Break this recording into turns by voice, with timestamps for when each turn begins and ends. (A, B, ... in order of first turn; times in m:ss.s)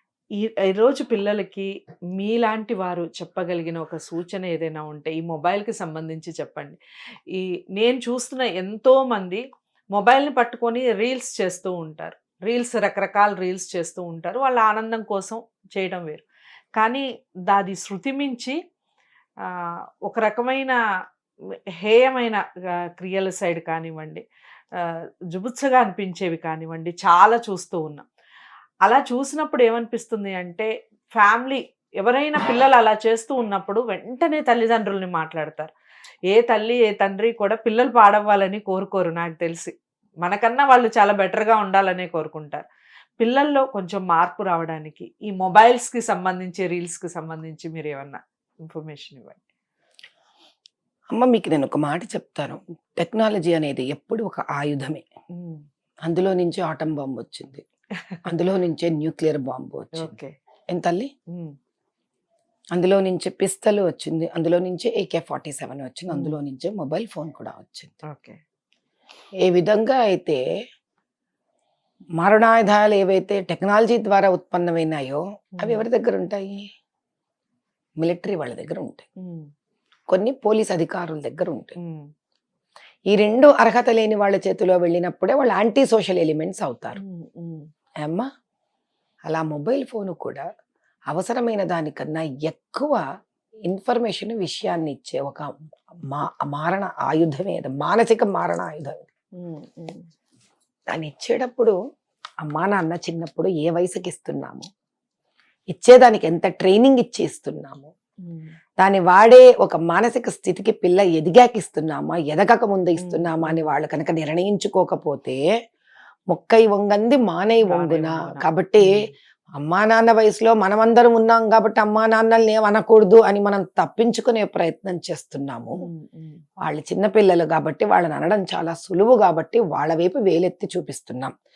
0:00.4-0:06.8 A
0:07.3-0:16.2 A
0:16.8-0:18.6 A
0:19.4-0:20.8 A
0:21.8-0:24.2 A
0:24.8-0:28.1 A
0:28.8-0:35.7 A
0:36.3-0:42.6 A
0:43.2-0:49.4 A
0:51.1-0:55.0 B
0:55.3-0:55.6 A
0:56.0-0:57.6 B
0:58.2-1:00.2 B
1:00.0-1:00.4 A
1:00.7-1:01.1 B
1:02.7-1:08.0 B
1:06.1-1:06.4 A
1:08.1-1:08.4 A
1:09.4-1:10.4 B
1:12.2-1:16.6 B
1:18.0-1:19.0 B
1:19.2-1:19.5 A
1:20.1-1:21.8 B
1:21.8-1:22.1 A
1:23.1-1:27.0 B
1:27.0-1:27.7 A
1:29.2-1:30.4 B
1:31.1-1:33.0 B
1:33.7-1:39.1 B
1:39.4-1:40.1 A
1:40.9-1:41.8 B
1:42.4-1:44.7 B
1:45.7-1:47.9 B
1:48.2-1:48.6 A
1:48.8-1:55.4 B
1:53.0-1:53.7 A
1:56.3-1:59.0 B
1:57.6-1:59.1 A
1:59.6-2:05.7 B
2:05.8-2:06.4 A
2:06.6-2:11.3 B